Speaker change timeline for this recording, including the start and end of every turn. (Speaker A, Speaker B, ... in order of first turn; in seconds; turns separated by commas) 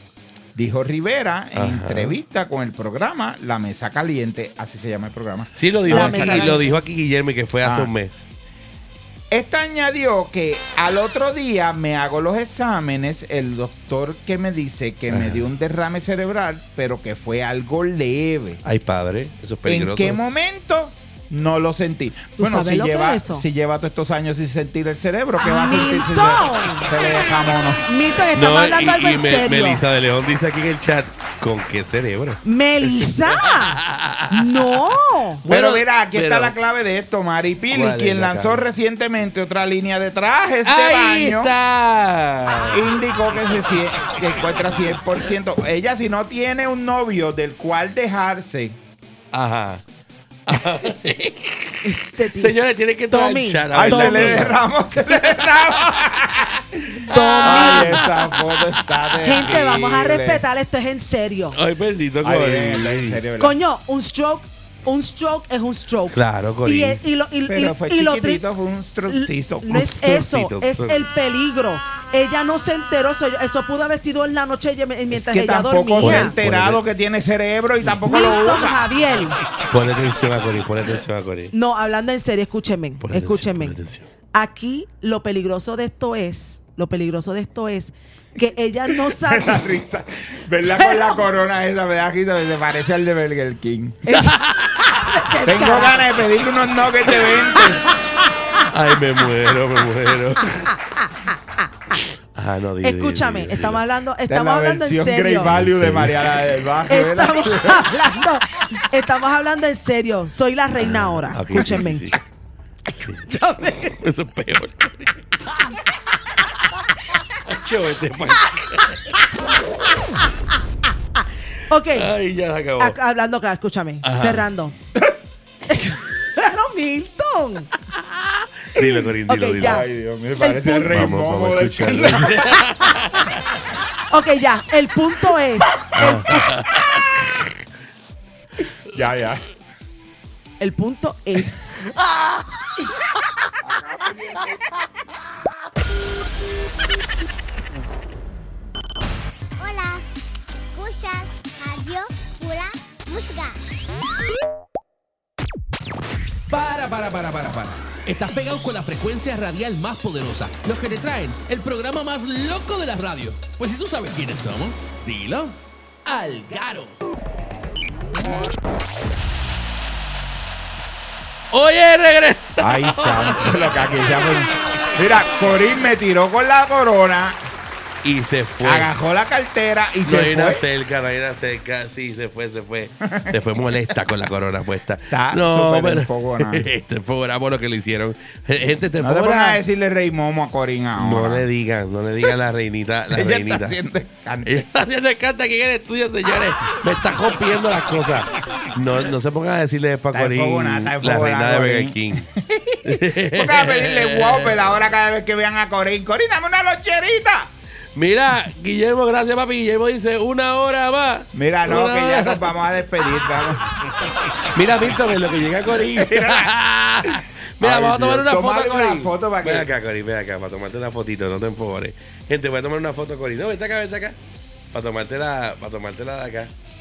Speaker A: 0.5-6.6, Speaker B: 1.5-2.2, Speaker B: 5.5-8.1, Speaker C: 5.9-6.7, Speaker A: 7.6-7.9, Speaker A: 9.3-18.6, Speaker B: 15.1-15.4, Speaker B: 18.6-20.2, Speaker A: 19.6-27.9, Speaker C: 22.4-23.4, Speaker C: 25.4-26.9, Speaker C: 27.9-29.8, Speaker B: 28.3-34.8, Speaker C: 32.4-33.8, Speaker C: 34.3-35.4, Speaker B: 35.4-36.5, Speaker A: 35.5-41.5, Speaker B: 37.7-38.6, Speaker B: 40.6-42.8, Speaker A: 42.7-48.8, Speaker B: 49.3-49.8, Speaker B: 50.5-54.6, Speaker C: 51.8-52.6, Speaker C: 53.1-54.6, Speaker A: 53.7-60.4, Speaker B: 57.1-58.3, Speaker C: 57.1-58.1, Speaker B: 59.2-59.7, Speaker C: 59.2-61.6, Speaker B: 61.5-63.2, Speaker A: 62.2-63.6, Speaker C: 63.4-68.4, Speaker B: 66.1-67.0, Speaker A: 67.5-70.0, Speaker C: 69.1-76.3, Speaker B: 69.7-71.0, Speaker A: 75.1-78.8, Speaker B: 76.0-76.8, Speaker C: 78.1-79.4, Speaker B: 79.7-81.5, Speaker C: 81.5-83.8, Speaker B: 83.0-84.1, Speaker C: 84.3-89.6, Speaker A: 88.9-94.1, Speaker C: 90.8-91.2, Speaker C: 94.1-96.0, Speaker B: 94.2-95.0, Speaker A: 95.4-97.8, Speaker B: 98.7-100.7, Speaker C: 100.7-101.1, Speaker B: 102.3-103.8, Speaker C: 102.8-105.5, Speaker A: 104.3-107.9, Speaker B: 105.5-106.2, Speaker C: 106.9-112.1, Speaker B: 110.8-112.2, Speaker B: 112.9-115.7, Speaker C: 113.3-113.9, Speaker B: 117.4-119.0, Speaker C: 121.7-122.1, Speaker B: 121.9-123.0, Speaker C: 122.8-124.7, Speaker B: 124.0-124.4, Speaker C: 125.7-127.7, Speaker B: 128.1-129.8, Speaker C: 129.3-129.8, Speaker A: 129.6-132.6, Speaker C: 130.4-131.1, Speaker B: 130.9-133.3, Speaker C: 134.1-136.6, Speaker B: 135.9-137.0, Speaker A: 138.9-139.4, Speaker C: 140.6-141.8, Speaker A: 143.6-144.6, Speaker D: 149.6-150.1, Speaker D: 150.7-153.6, Speaker E: 156.5-167.0, Speaker B: 171.5-173.7, Speaker A: 172.6-177.4, Speaker B: 178.0-178.9, Speaker A: 178.6-180.6, Speaker B: 180.0-189.6, Speaker A: 183.0-183.3, Speaker A: 185.1-186.7, Speaker A: 189.0-191.5, Speaker B: 191.0-193.8, Speaker A: 193.1-194.7, Speaker B: 194.4-202.3, Speaker A: 200.1-207.5, Speaker B: 202.8-204.7, Speaker B: 207.9-212.5, Speaker A: 211.3-213.6, Speaker B: 214.4-224.2, Speaker A: 215.8-219.7, Speaker B: 224.7-226.5